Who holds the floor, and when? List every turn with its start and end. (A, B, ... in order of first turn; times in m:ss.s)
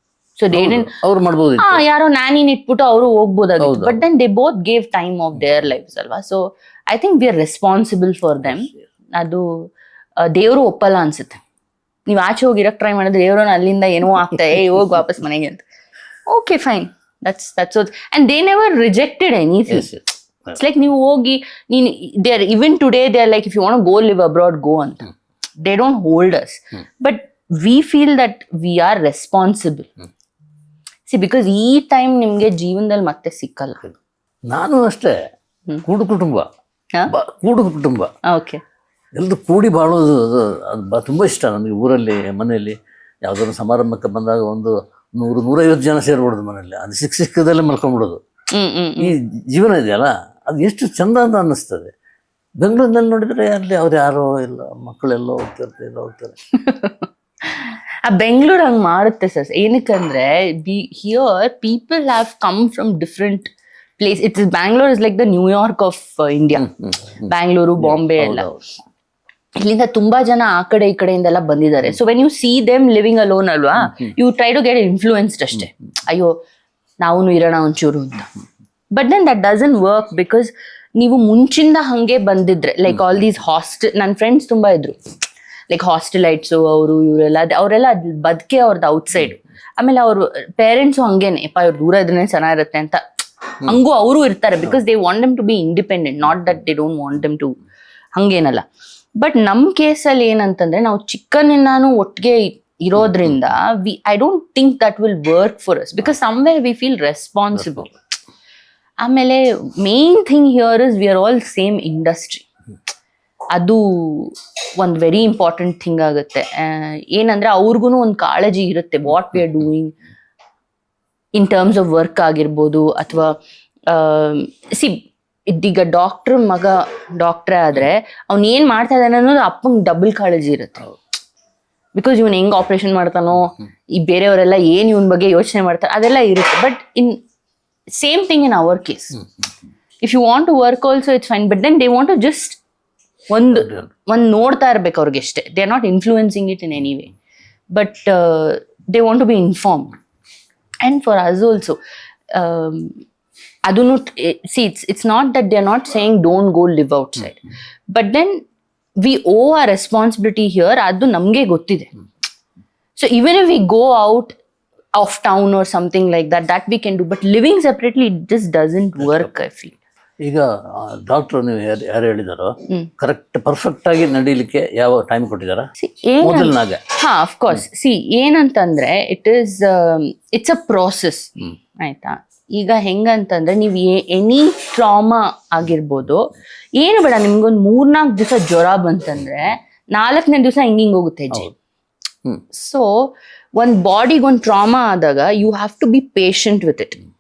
0:00.4-0:01.0 A
0:00.5-0:01.8 B
0:01.6-0:11.4 A
0:03.6-0:04.0 B
0:12.1-0:15.6 A
0:16.3-0:19.9 A
0:19.7-0:20.6 B
0:20.5-0:25.1 A
0:25.6-0:29.9 A
0:31.1-0:33.8 A
0:34.5-0:35.2 B
0:35.9-0:36.5 B
0:37.1-0:38.1 B
0:38.3-0:38.6 A
0:39.2-0:48.2 B
0:48.5-0:49.1 A
0:49.0-0:51.9 B
0:52.6-0:56.3 B
0:56.5-1:03.5 A
1:04.0-1:06.7 A
1:06.6-1:08.8 B
1:07.3-1:08.5 A
1:09.6-1:16.4 A
1:17.0-1:18.3 A
1:18.9-1:25.0 A
1:25.7-1:33.0 A
1:33.6-1:37.6 A
1:38.2-1:38.7 A
1:39.2-1:48.0 A
1:49.0-1:52.5 A
1:53.5-2:00.0 A
2:01.4-2:10.9 A
2:12.0-2:17.2 A
2:17.9-2:19.2 A
2:20.0-2:22.6 A
2:23.3-2:27.1 A
2:23.6-2:23.9 B
2:27.7-2:30.0 A
2:30.8-2:31.8 A
2:32.3-2:33.0 A
2:33.6-2:38.5 A
2:39.0-2:41.9 A
2:43.0-2:44.4 A
2:45.0-2:49.8 A
2:50.3-2:55.7 B
2:55.8-3:11.5 A
2:56.2-2:56.8 B
3:12.5-3:17.0 A